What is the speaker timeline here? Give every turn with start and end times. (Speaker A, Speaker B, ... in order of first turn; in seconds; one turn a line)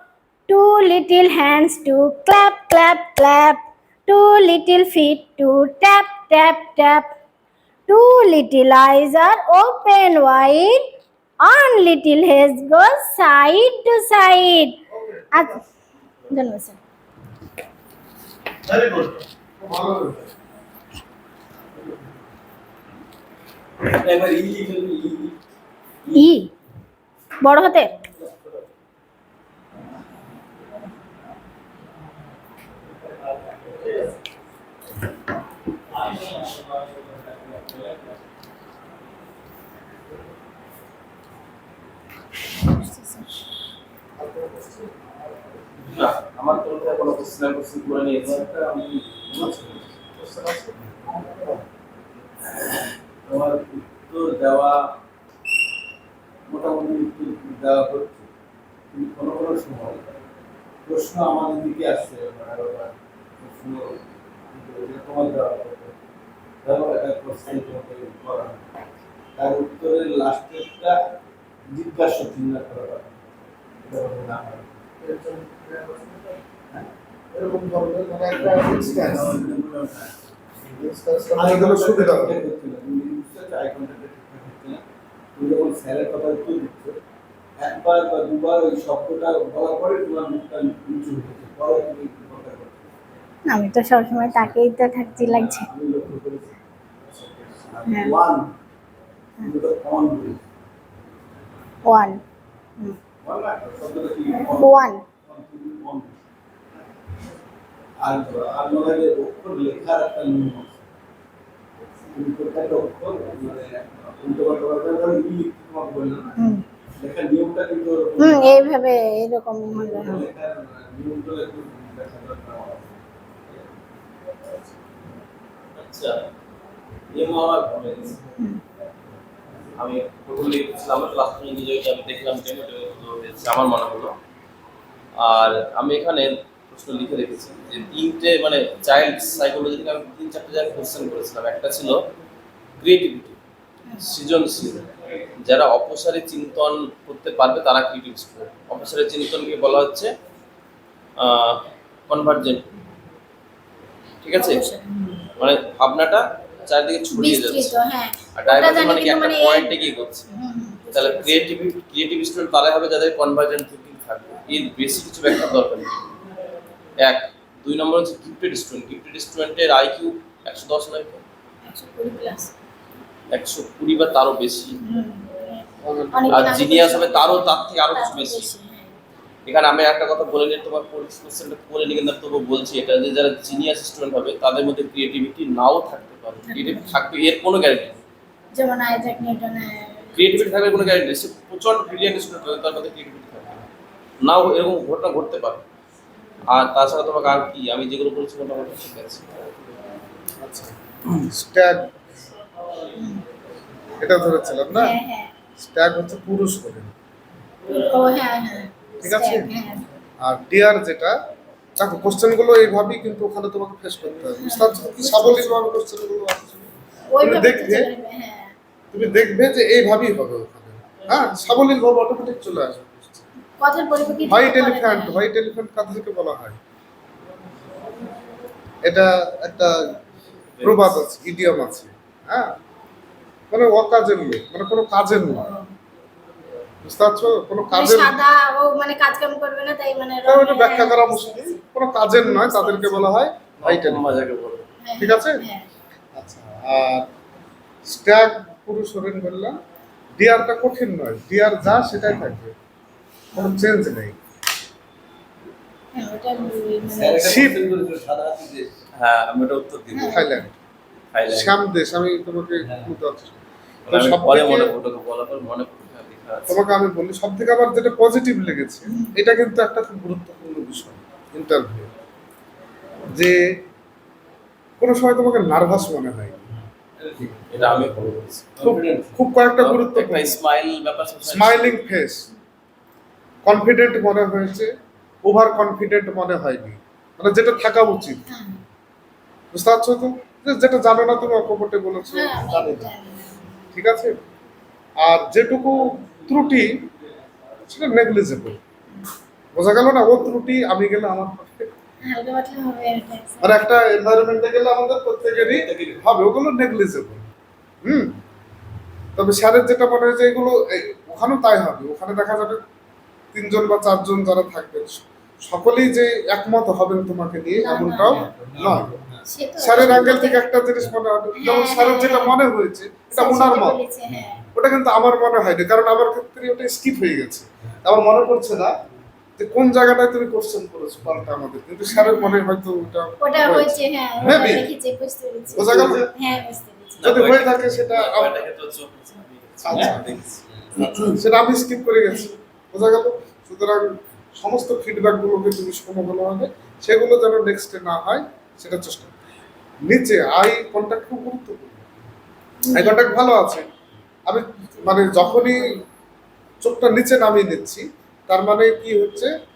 Speaker A: 0.5-7.0
Speaker A: 7.9-10.8
Speaker A: 11.4-14.8
Speaker B: 14.9-15.6
Speaker A: 15.3-15.6
Speaker A: 16.3-16.8
Speaker B: 18.7-20.3
Speaker C: 23.8-25.4
Speaker A: 26.1-26.5
Speaker A: 27.4-28.0
Speaker C: 33.5-33.9
Speaker C: 36.1-38.0
Speaker A: 42.6-43.3
Speaker B: 44.2-45.6
Speaker D: 45.9-48.5
Speaker C: 48.2-49.9
Speaker B: 49.3-51.6
Speaker C: 52.5-54.8
Speaker C: 56.5-58.3
Speaker C: 58.9-60.0
Speaker C: 60.9-65.9
Speaker C: 66.6-68.6
Speaker C: 69.4-70.9
Speaker C: 71.7-73.2
Speaker C: 73.8-74.8
Speaker B: 75.0-76.2
Speaker B: 77.3-79.4
Speaker C: 78.3-80.2
Speaker B: 80.7-82.4
Speaker C: 81.3-84.8
Speaker C: 85.3-87.0
Speaker C: 87.6-92.9
Speaker A: 93.5-95.7
Speaker C: 95.2-98.5
Speaker A: 97.8-98.1
Speaker C: 99.4-100.4
Speaker A: 101.8-102.2
Speaker C: 103.2-104.7
Speaker A: 104.5-105.0
Speaker C: 105.2-106.2
Speaker C: 108.0-110.8
Speaker C: 112.1-116.3
Speaker C: 117.0-118.7
Speaker A: 118.2-120.2
Speaker C: 119.7-122.9
Speaker D: 125.8-126.2
Speaker D: 127.1-128.2
Speaker D: 129.8-134.1
Speaker D: 135.2-142.0
Speaker D: 142.8-143.4
Speaker D: 144.0-144.8
Speaker D: 145.4-150.1
Speaker D: 151.2-152.7
Speaker D: 154.2-154.6
Speaker A: 154.3-155.3
Speaker D: 155.4-157.7
Speaker A: 157.1-159.8
Speaker D: 158.3-160.3
Speaker A: 160.3-161.4
Speaker D: 160.9-166.0
Speaker D: 167.0-171.2
Speaker A: 171.7-172.5
Speaker D: 173.3-174.8
Speaker A: 174.8-178.9
Speaker B: 175.8-176.7
Speaker D: 176.3-178.5
Speaker D: 179.4-188.0
Speaker A: 186.4-186.9
Speaker A: 188.5-190.6
Speaker D: 190.1-193.7
Speaker D: 194.2-195.6
Speaker D: 196.5-199.4
Speaker B: 200.4-201.9
Speaker A: 203.0-203.2
Speaker B: 204.0-204.9
Speaker A: 204.7-205.3
Speaker B: 205.6-206.9
Speaker A: 207.7-209.8
Speaker B: 209.0-209.5
Speaker B: 210.2-211.2
Speaker B: 211.8-216.7
Speaker A: 214.4-215.6
Speaker A: 217.1-218.5
Speaker B: 217.2-217.9
Speaker B: 218.9-223.2
Speaker A: 223.6-225.2
Speaker B: 224.3-226.6
Speaker B: 228.8-229.8
Speaker D: 230.6-231.0
Speaker B: 230.6-232.5
Speaker B: 233.5-235.5
Speaker B: 236.8-238.2
Speaker A: 237.7-243.1
Speaker B: 240.2-244.1
Speaker D: 243.6-244.6
Speaker A: 244.8-245.7
Speaker B: 245.0-245.4
Speaker B: 246.1-247.1
Speaker B: 247.8-249.5
Speaker B: 250.2-252.5
Speaker B: 253.3-254.2
Speaker A: 255.9-257.5
Speaker C: 256.8-258.7
Speaker B: 257.2-257.6
Speaker D: 259.0-260.2
Speaker A: 259.9-260.4
Speaker B: 260.1-260.5
Speaker D: 261.1-261.5
Speaker B: 261.3-263.4
Speaker C: 262.6-262.9
Speaker D: 263.9-266.6
Speaker B: 263.9-264.7
Speaker B: 266.5-271.9
Speaker A: 268.9-269.1
Speaker B: 273.1-273.4
Speaker B: 274.8-276.4
Speaker C: 277.0-278.0
Speaker D: 277.3-278.5
Speaker C: 278.6-279.2
Speaker B: 278.6-280.4
Speaker D: 279.6-281.8
Speaker B: 281.2-282.3
Speaker B: 283.4-284.7
Speaker B: 285.2-288.2
Speaker A: 288.3-288.6
Speaker B: 289.5-292.9
Speaker A: 292.1-293.4
Speaker B: 293.7-294.1
Speaker B: 295.0-296.8
Speaker C: 296.3-297.2
Speaker B: 297.6-298.6
Speaker B: 299.5-301.7
Speaker A: 302.0-303.6
Speaker B: 303.4-307.2
Speaker C: 305.3-306.0
Speaker B: 307.8-308.1
Speaker B: 309.1-312.6
Speaker B: 313.3-318.9
Speaker A: 317.6-318.3
Speaker C: 318.1-320.2
Speaker A: 319.3-320.5
Speaker B: 319.6-323.8
Speaker A: 321.4-322.3
Speaker A: 323.1-324.4
Speaker C: 324.1-324.5
Speaker B: 324.5-328.7
Speaker B: 329.4-334.7
Speaker A: 331.9-332.5
Speaker A: 333.2-337.1
Speaker B: 335.5-336.1
Speaker C: 335.6-336.1
Speaker D: 337.0-340.4
Speaker B: 337.0-338.4
Speaker B: 339.6-340.2
Speaker C: 339.7-341.2
Speaker A: 340.8-341.1
Speaker B: 341.0-349.1
Speaker A: 342.1-342.3
Speaker B: 349.9-351.8
Speaker A: 352.6-353.0
Speaker B: 352.7-353.7
Speaker B: 354.3-355.8
Speaker A: 355.1-355.8
Speaker B: 356.6-359.3